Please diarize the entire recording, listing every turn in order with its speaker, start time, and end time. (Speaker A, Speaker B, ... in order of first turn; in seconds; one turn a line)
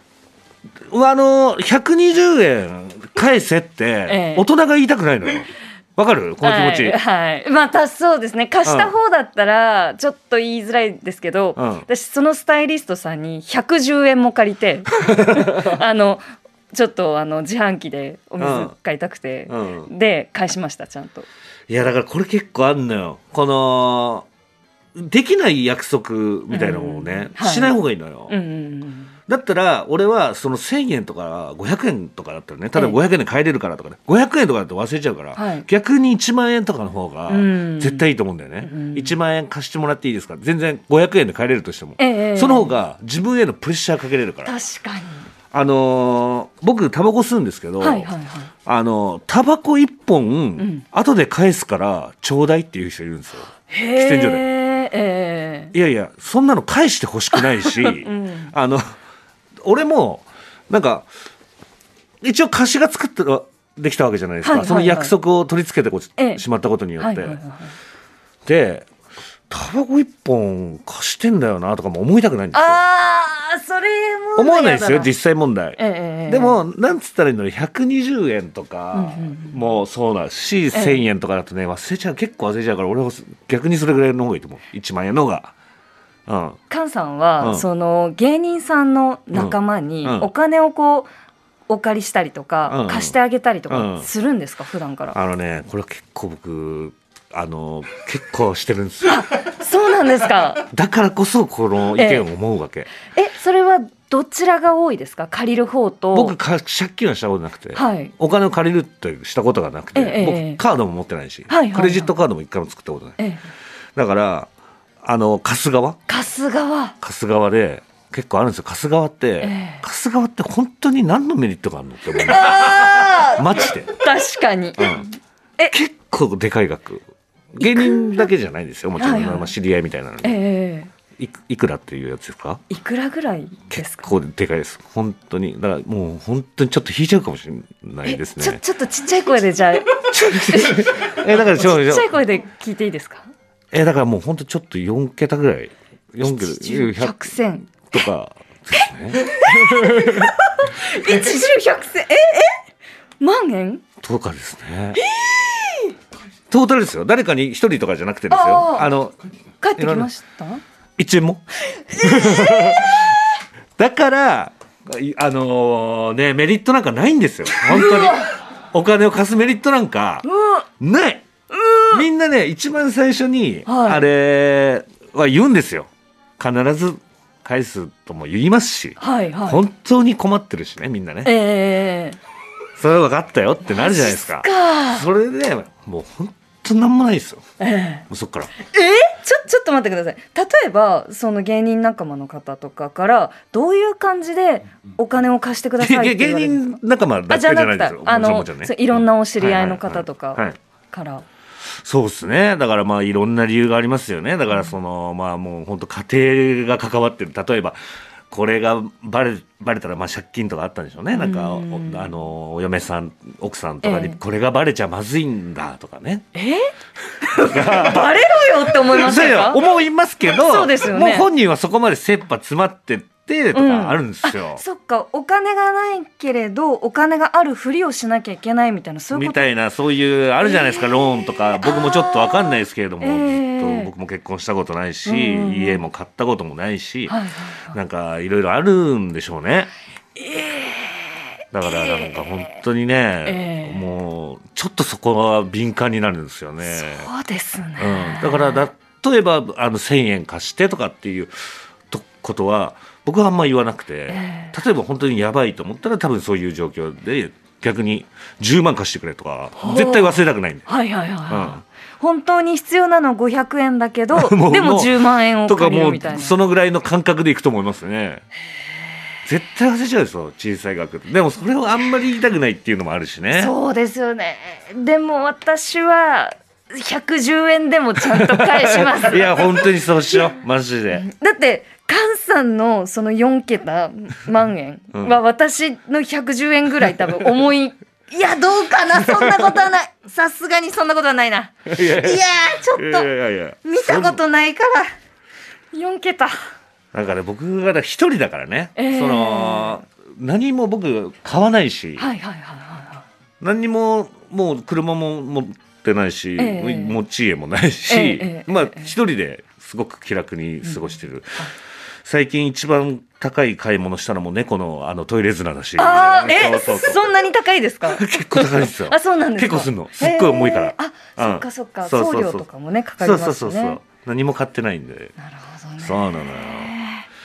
Speaker A: 0.9-7.0
Speaker B: 4.1-4.5
Speaker B: 6.4-21.3
Speaker A: 8.6-8.9
Speaker A: 11.6-11.8
Speaker A: 15.1-15.7
Speaker A: 18.4-18.7
Speaker A: 19.5-19.9
Speaker A: 21.7-24.3
Speaker A: 24.9-28.3
Speaker B: 26.5-27.7
Speaker B: 28.3-29.1
Speaker A: 29.3-44.5
Speaker B: 35.3-35.7
Speaker B: 37.3-38.1
Speaker B: 38.6-39.1
Speaker B: 42.0-42.7
Speaker B: 44.4-45.3
Speaker A: 45.5-48.1
Speaker B: 47.8-48.5
Speaker A: 48.6-54.4
Speaker B: 50.6-50.8
Speaker B: 53.7-55.7
Speaker A: 55.7-58.9
Speaker B: 57.3-58.5
Speaker A: 59.6-61.1
Speaker A: 62.2-67.4
Speaker B: 64.4-65.1
Speaker B: 66.2-66.4
Speaker B: 67.0-67.7
Speaker A: 68.5-68.9
Speaker A: 69.5-72.8
Speaker B: 72.5-75.1
Speaker A: 74.3-85.5
Speaker B: 75.8-76.6
Speaker B: 78.9-79.6
Speaker B: 80.7-81.0
Speaker A: 86.3-86.6
Speaker B: 86.7-91.1
Speaker A: 87.4-87.7
Speaker A: 89.3-90.3
Speaker B: 91.7-95.2
Speaker A: 92.7-93.2
Speaker A: 93.7-94.1
Speaker A: 95.1-99.2
Speaker B: 99.1-100.6
Speaker A: 100.7-102.9
Speaker B: 102.0-102.2
Speaker B: 103.1-106.3
Speaker A: 106.1-113.2
Speaker B: 107.7-108.1
Speaker B: 109.9-110.6
Speaker B: 111.5-112.1
Speaker A: 114.0-114.5
Speaker A: 115.0-116.0
Speaker B: 116.1-117.0
Speaker A: 117.0-123.9
Speaker B: 119.4-119.8
Speaker B: 122.2-125.7
Speaker A: 125.7-130.4
Speaker B: 127.6-128.3
Speaker B: 129.0-129.5
Speaker B: 130.2-130.9
Speaker A: 131.2-132.6
Speaker B: 132.7-134.1
Speaker A: 133.7-138.6
Speaker B: 138.0-143.3
Speaker A: 140.1-142.1
Speaker A: 143.7-147.3
Speaker B: 146.2-148.0
Speaker A: 147.8-150.3
Speaker B: 148.8-152.6
Speaker B: 153.2-153.8
Speaker A: 154.0-155.0
Speaker B: 155.0-155.9
Speaker A: 156.5-159.2
Speaker B: 158.3-158.9
Speaker B: 159.6-160.6
Speaker A: 159.8-160.1
Speaker A: 161.0-163.1
Speaker B: 161.9-163.1
Speaker A: 163.8-170.2
Speaker B: 167.6-168.3
Speaker B: 170.2-170.7
Speaker A: 170.8-171.2
Speaker B: 171.5-172.0
Speaker A: 171.9-181.3
Speaker B: 173.7-174.0
Speaker B: 179.0-179.6
Speaker B: 181.2-182.2
Speaker A: 182.8-187.4
Speaker B: 183.7-185.1
Speaker B: 187.6-188.0
Speaker A: 188.1-188.5
Speaker B: 188.6-196.8
Speaker A: 195.8-200.6
Speaker B: 197.3-201.2
Speaker A: 201.8-207.8
Speaker A: 208.3-216.3
Speaker B: 211.1-212.1
Speaker B: 213.8-214.2
Speaker B: 216.3-216.7
Speaker B: 217.2-219.6
Speaker A: 217.4-218.2
Speaker A: 218.9-224.6
Speaker B: 220.3-221.3
Speaker B: 223.5-229.5
Speaker A: 229.1-237.2
Speaker B: 230.4-233.9
Speaker B: 235.1-235.8
Speaker B: 237.1-237.8
Speaker A: 237.7-239.7
Speaker B: 240.2-242.5
Speaker A: 241.5-247.1
Speaker B: 243.2-244.0
Speaker B: 246.7-248.7
Speaker A: 247.8-251.3
Speaker A: 251.9-260.7
Speaker B: 254.1-254.5
Speaker B: 259.6-266.3
Speaker A: 261.3-261.6
Speaker A: 264.1-268.2
Speaker A: 269.2-273.5
Speaker B: 273.3-280.2
Speaker A: 278.1-281.0
Speaker B: 280.9-293.1
Speaker A: 291.7-294.2
Speaker B: 293.6-294.9
Speaker B: 295.7-296.3
Speaker A: 296.9-302.1
Speaker B: 298.8-299.8
Speaker B: 302.0-303.0
Speaker A: 303.4-311.4
Speaker B: 306.4-307.0
Speaker B: 307.9-308.9
Speaker B: 310.6-311.5
Speaker A: 312.0-317.0
Speaker B: 315.8-323.8
Speaker A: 317.9-322.4
Speaker A: 323.0-325.1
Speaker B: 325.2-327.0
Speaker A: 325.8-326.7